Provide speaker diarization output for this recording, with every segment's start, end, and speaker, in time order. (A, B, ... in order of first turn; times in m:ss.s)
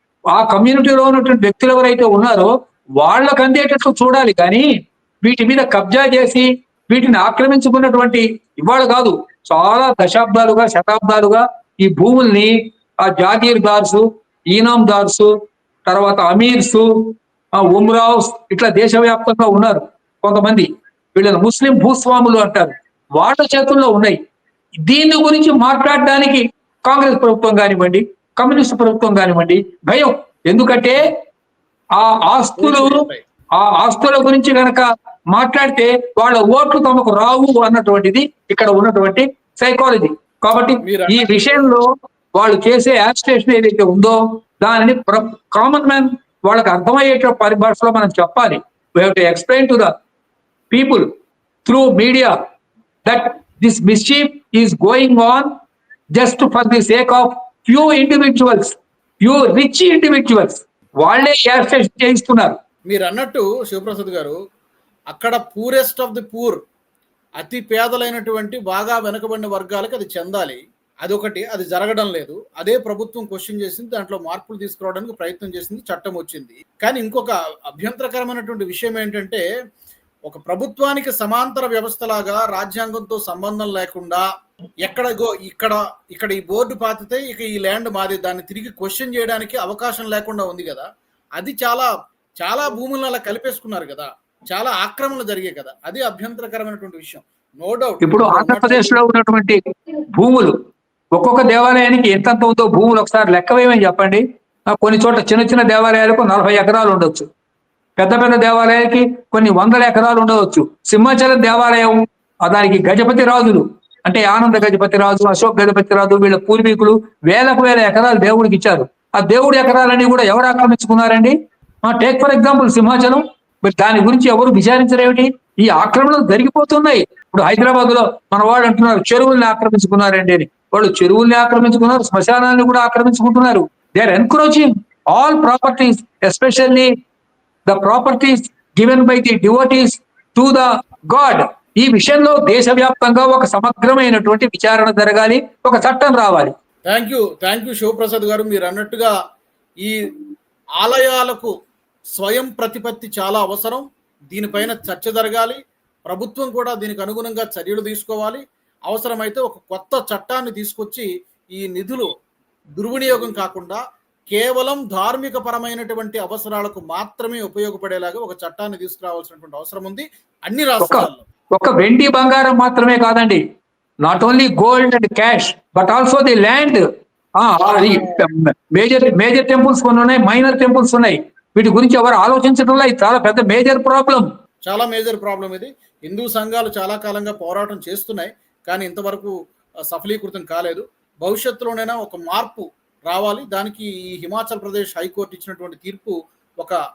0:00.3-0:04.6 A
0:05.2-0:15.3 A
0:15.8-0:16.9 A
0:17.6-0:24.2 A
0:24.8-0:31.1 A
0:32.0-0:33.0 A
0:32.6-0:33.2 B
0:33.6-0:41.8 A
0:40.8-0:41.6 B
0:42.4-0:49.9 A
0:50.7-0:51.1 A
0:51.6-0:52.3 A
0:53.0-0:55.5 A
0:56.1-1:02.6 A
1:02.9-1:04.4 B
1:05.1-1:06.6 B
1:07.4-1:19.4 B
1:20.3-1:24.2 B
1:24.8-1:30.8 B
1:31.4-1:31.9 B
1:32.4-1:39.0 B
1:38.0-1:39.6 A
1:40.1-1:40.5 A
1:41.2-1:47.3 A
1:48.0-2:16.9 A
2:17.7-2:26.5 A
2:26.9-2:29.1 B
2:30.8-2:31.5 B
2:32.2-2:42.1 B
2:42.8-2:51.2 B
2:50.8-2:53.4 A
2:54.0-2:56.8 A
2:57.4-3:04.3 A
2:57.7-2:58.2 B
3:04.6-3:09.3 B
3:09.9-3:16.8 B